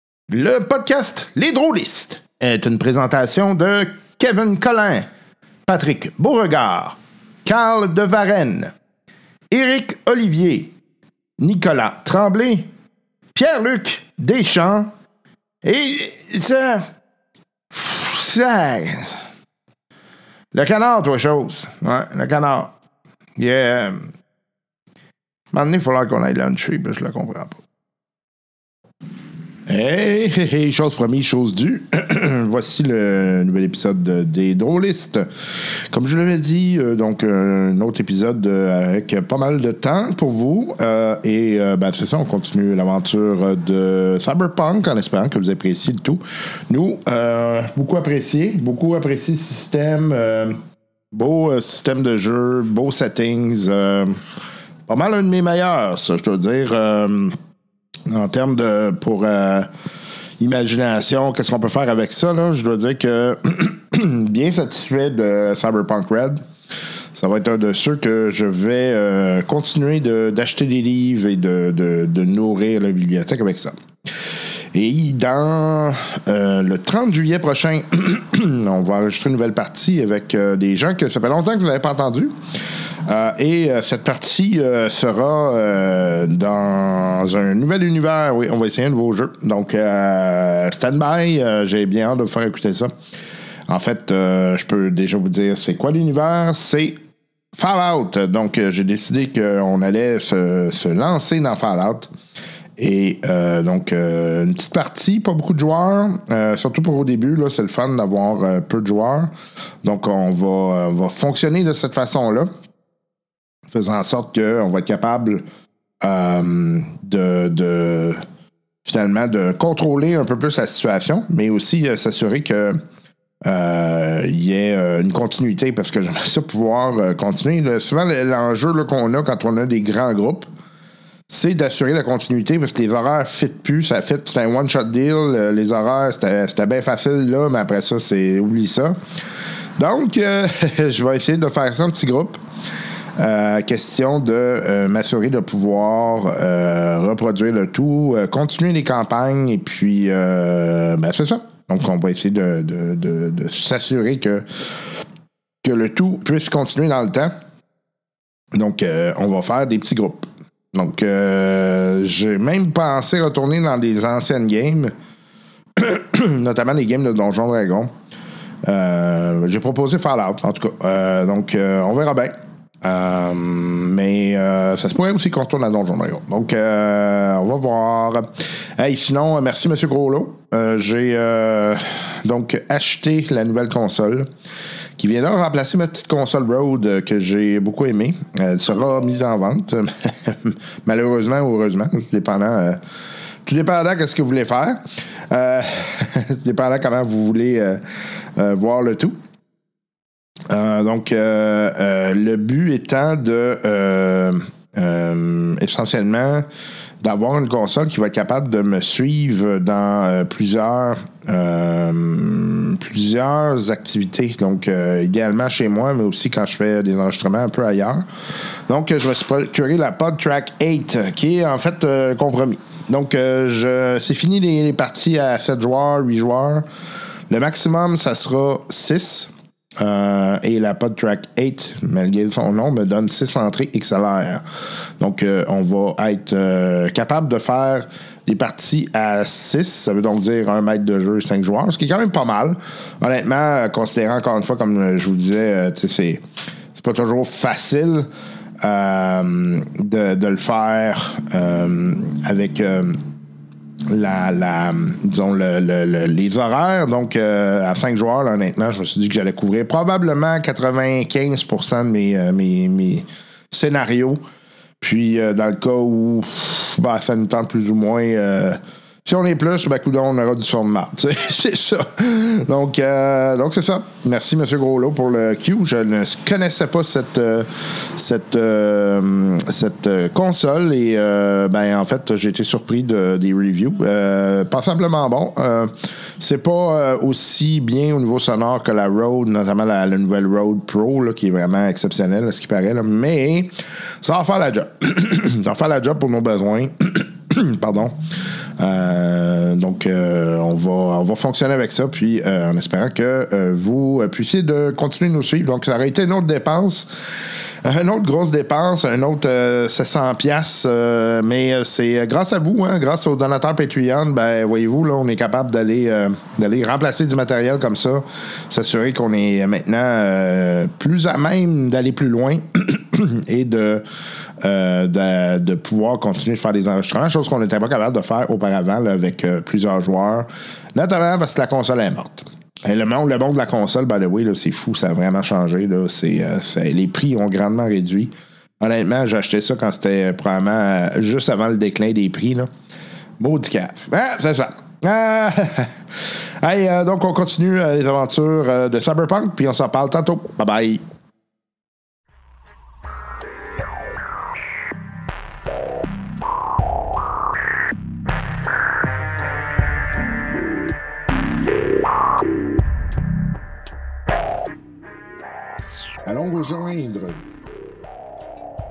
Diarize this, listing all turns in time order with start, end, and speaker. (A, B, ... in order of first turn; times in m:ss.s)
0:00.3-0:05.1 A
0:05.6-0:08.7 A
0:09.5-0:10.7 A
0:11.4-0:12.7 A
0:13.3-0:14.9 A
0:15.6-0:16.8 A
0:17.7-0:19.2 A
0:20.5-0:22.7 A
0:23.4-0:24.1 A
0:25.5-0:27.6 A
0:29.7-0:35.3 A
0:35.9-0:50.6 A
0:51.1-0:54.2 A
0:54.9-0:57.4 A
0:58.1-0:59.7 A
1:00.4-1:06.4 A
1:07.1-1:22.4 A
1:23.0-1:32.9 A
1:33.7-1:37.0 A
1:37.5-1:42.1 A
1:42.8-1:52.5 A
1:53.7-1:55.4 A
1:56.0-1:58.2 A
1:58.8-2:02.8 A
2:03.4-2:10.5 A
2:11.3-2:19.0 A
2:19.8-2:22.4 A
2:23.2-2:35.0 A
2:35.6-2:37.3 A
2:38.5-2:44.9 A
2:45.8-2:47.9 A
2:48.6-3:04.3 A
3:05.0-3:12.8 A
3:13.4-3:19.2 A
3:20.5-3:26.4 A
3:27.0-3:46.6 A
3:47.3-3:54.4 A
3:55.0-4:06.2 A
4:06.7-4:08.1 A
4:08.6-4:13.0 A
4:13.9-4:24.2 A
4:24.8-4:58.0 A
4:58.6-5:23.8 A
5:24.4-5:42.5 A
5:43.2-5:50.8 A
6:06.0-6:07.2 A